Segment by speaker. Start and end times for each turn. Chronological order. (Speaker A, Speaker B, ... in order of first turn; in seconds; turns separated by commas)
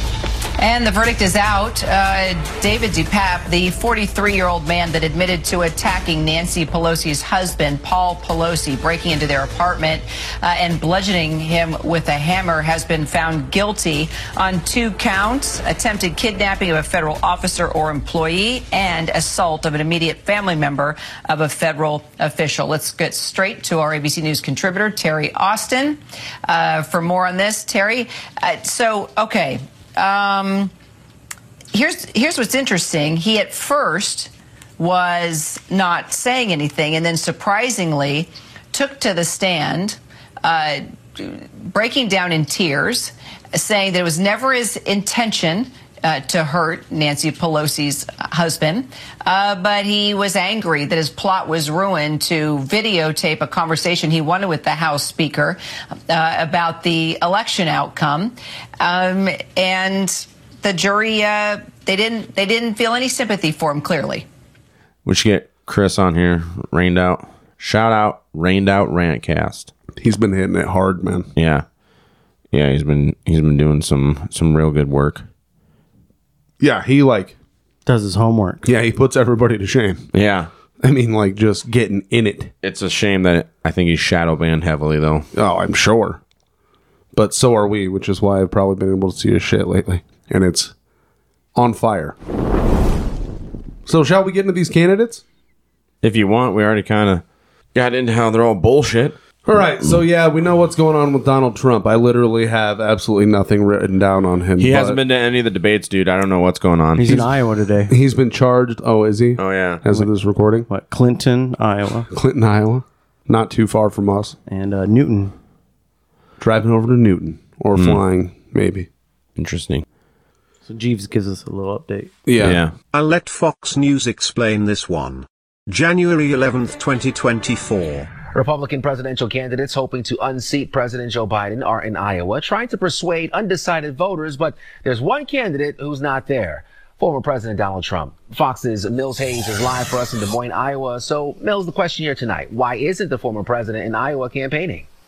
Speaker A: 0.6-30.7, Speaker A: 31.7-64.3, Speaker B: 65.0-69.7, Speaker C: 70.0-71.3, Speaker B: 71.4-71.7, Speaker B: 72.5-75.3, Speaker C: 76.6-77.4, Speaker D: 77.9-78.7, Speaker C: 78.6-80.1, Speaker B: 80.1-80.5, Speaker C: 80.8-82.5, Speaker B: 82.6-85.3, Speaker C: 85.3-86.2, Speaker C: 87.1-90.7, Speaker C: 91.6-92.2, Speaker C: 93.9-95.2, Speaker B: 96.0-97.2, Speaker B: 97.7-99.2, Speaker C: 99.5-105.0, Speaker B: 104.6-107.3, Speaker D: 107.0-107.9, Speaker C: 107.9-110.7, Speaker B: 109.4-109.8, Speaker D: 110.7-112.1, Speaker C: 112.1-114.4, Speaker D: 114.5-115.3, Speaker C: 116.4-118.9, Speaker B: 117.8-118.0, Speaker B: 119.4-119.8, Speaker D: 120.7-122.2, Speaker C: 122.3-122.6, Speaker B: 122.4-122.7, Speaker E: 122.9-128.1, Speaker F: 128.3-144.9